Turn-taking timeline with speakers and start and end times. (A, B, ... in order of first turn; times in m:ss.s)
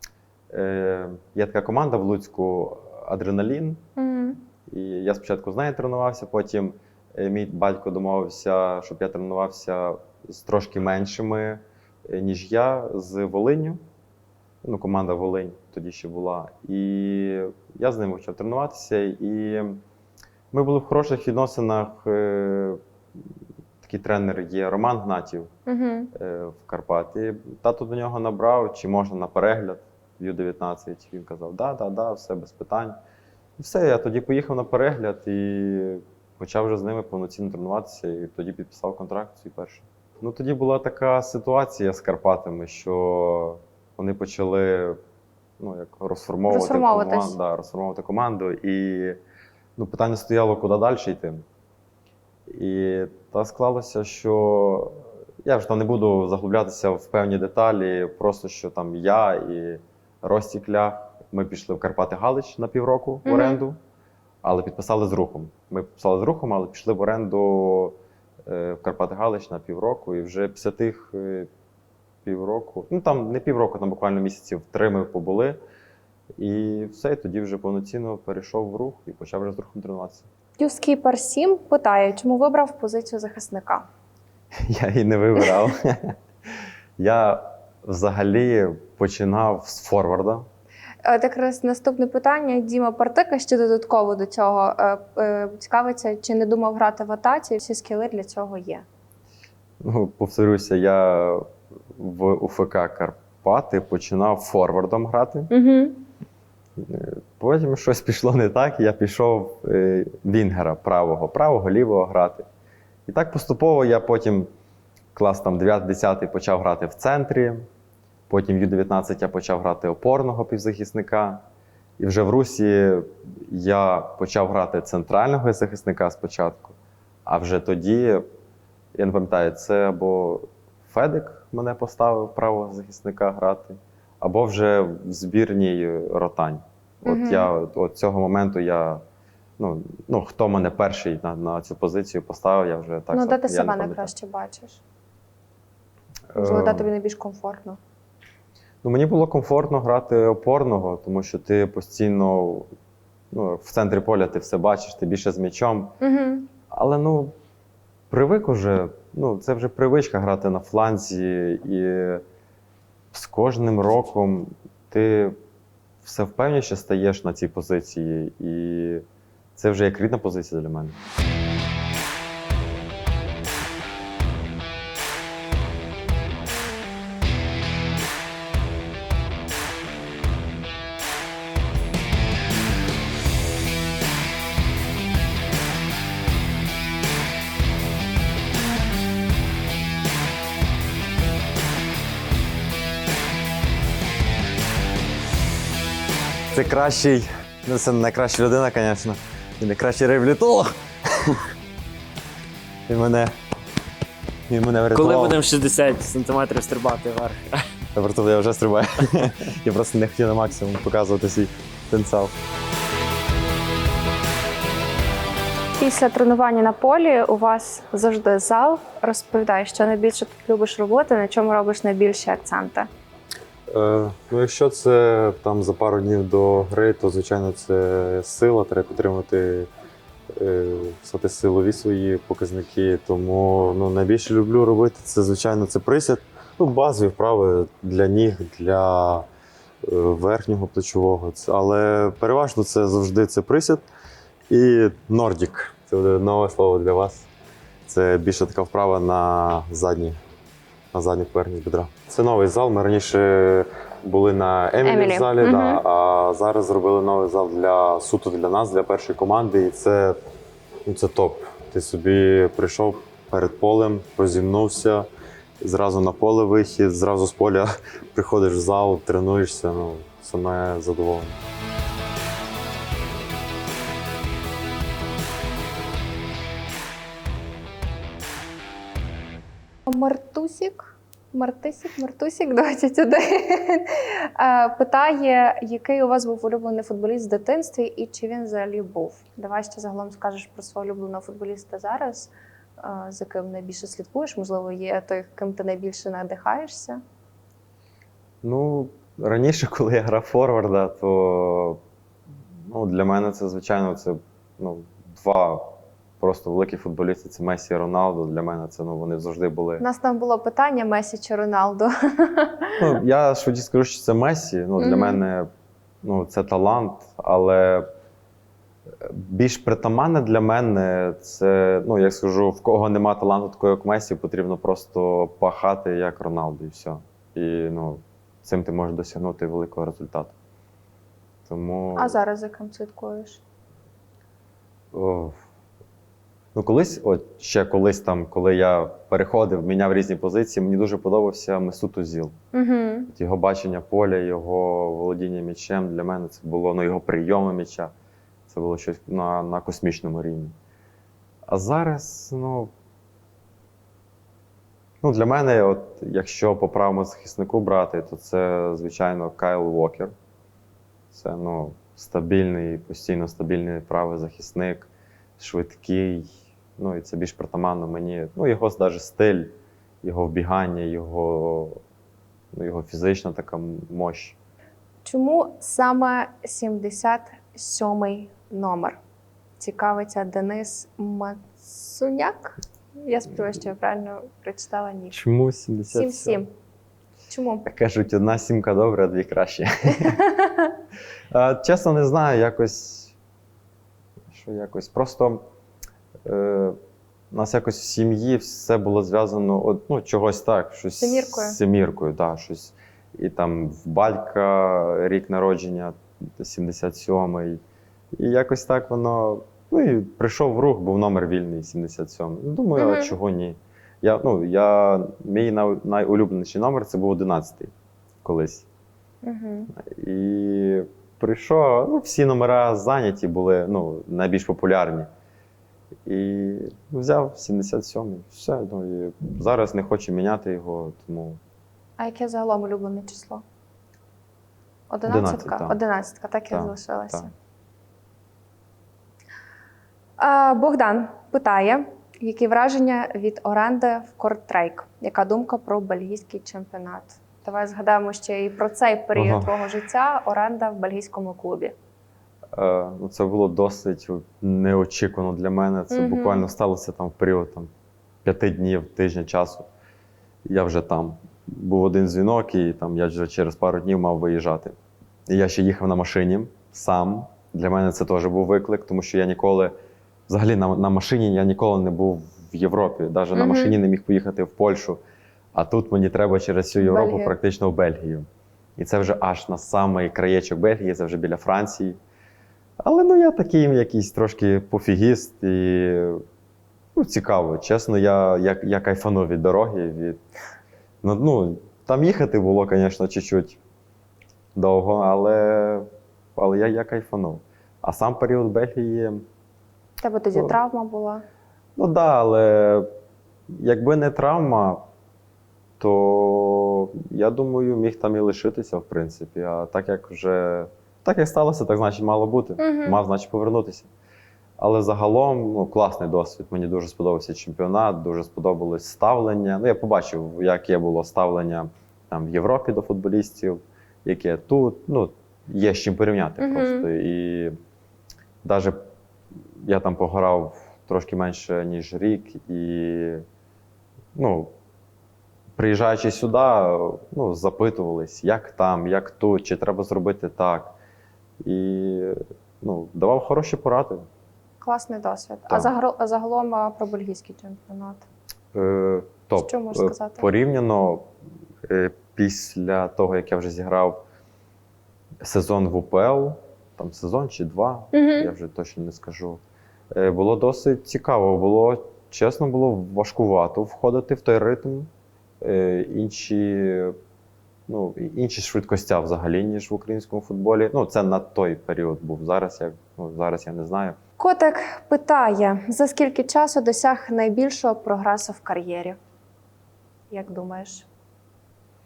0:00.5-0:03.8 A
0:04.0-0:04.4 B
0:04.7-0:13.8 A
0:14.6-0:19.8 A
0:20.5-0:22.8 A
0:23.8-0:25.5 A
0:25.7-0:26.1 B
0:26.1-0:33.0 A
0:33.6-0:45.0 A
0:45.6-0:49.2 A
0:46.5-0:47.4 B
0:49.8-0:51.4 A
0:52.5-1:03.8 A
1:03.2-1:03.6 B
1:04.4-1:11.5 A
1:12.2-1:15.6 A
1:16.4-1:20.3 A
1:20.6-1:23.9 B
1:24.6-1:26.2 A
1:27.0-1:30.5 A
1:31.0-1:38.8 B
1:39.8-1:45.5 A
1:45.5-1:46.0 B
1:46.8-1:52.5 A
1:53.0-1:54.5 A
1:55.1-1:57.7 A
1:58.3-2:01.4 A
2:02.0-2:08.2 A
2:08.9-2:19.0 A
2:17.0-2:17.5 B
2:19.6-2:24.1 A
2:23.1-2:24.8 B
2:26.3-2:26.9 A
2:26.4-2:27.8 B
2:28.8-2:32.7 A
2:33.3-2:36.0 A
2:36.0-2:36.5 B
2:36.7-2:37.3 A
2:38.1-2:42.2 A
2:43.1-2:45.4 A
2:46.0-2:49.0 A
2:49.6-2:51.0 A
3:16.5-3:21.5 A
3:22.9-3:23.4 A
3:24.5-3:25.4 A
3:24.9-3:27.6 C
3:27.9-3:32.3 A
3:35.8-3:42.9 B
3:43.7-3:49.7 A
3:50.3-3:59.3 A
3:59.8-4:03.8 A
4:04.5-4:07.3 A
4:07.9-4:10.2 A
4:10.9-4:20.2 A
4:14.8-4:15.8 B
4:20.8-4:25.1 A
4:25.6-4:31.4 A
4:39.9-4:57.0 B
4:58.4-5:01.8 A
5:02.7-5:09.8 A
5:09.8-5:12.9 B
5:12.8-5:15.5 A
5:14.8-5:15.2 B
5:16.0-5:17.9 A
5:19.0-5:30.3 A
5:31.4-5:32.2 A
5:32.0-5:33.4 B
5:34.9-5:35.4 A
5:36.5-5:42.4 A
5:42.5-5:43.1 B
5:43.1-5:47.9 A
5:48.5-5:50.6 A
5:51.5-5:52.7 A
5:55.0-6:00.1 A
6:01.1-6:11.8 A
6:12.5-6:14.4 A
6:15.0-6:19.0 B
6:19.6-6:25.2 B
6:25.1-6:26.4 A
6:25.9-6:26.5 B
6:27.3-6:27.7 B
6:27.6-6:30.2 A
6:30.0-6:30.7 B
6:31.3-6:33.1 A
6:34.3-6:35.4 A
6:36.2-6:36.8 A
6:37.3-6:47.6 A
6:41.0-6:41.6 B
6:48.1-6:58.6 A
6:52.8-6:53.2 B
6:59.2-6:59.7 B
6:59.7-7:05.1 A
7:06.0-7:11.4 A
7:12.0-7:13.4 B
7:14.9-7:17.3 B
7:15.0-7:15.8 A
7:16.5-7:17.3 A
7:20.2-7:31.7 B
7:29.1-7:29.5 A
7:32.5-7:37.7 A
7:35.9-7:36.4 B
7:38.2-7:39.7 A
7:40.4-7:44.7 A
7:45.3-7:49.7 A
7:50.3-7:55.0 A
7:53.3-7:53.8 B
7:55.5-8:02.0 A
7:56.8-7:57.3 B
8:02.8-8:06.2 A
8:06.9-8:10.2 A
8:11.0-8:13.6 A
8:14.5-8:19.2 A
8:20.0-8:21.2 B
8:21.8-8:22.9 A
8:23.5-8:24.8 A
8:25.8-8:33.9 A
8:32.6-8:33.0 B
8:34.6-8:47.6 A
8:46.4-8:46.9 B
8:48.4-8:48.8 A
8:49.6-8:53.2 A
8:54.1-8:54.5 A
8:55.6-9:00.8 A
9:01.4-9:04.1 A
9:04.6-9:08.0 B
9:08.5-9:11.1 A
9:09.4-9:10.3 B
9:11.6-9:14.0 A
9:15.2-9:19.4 A
9:17.9-9:18.3 B
9:19.9-9:24.9 A
9:25.4-9:27.0 A
9:27.7-9:34.0 A
9:34.2-9:39.0 B
9:40.1-9:40.8 B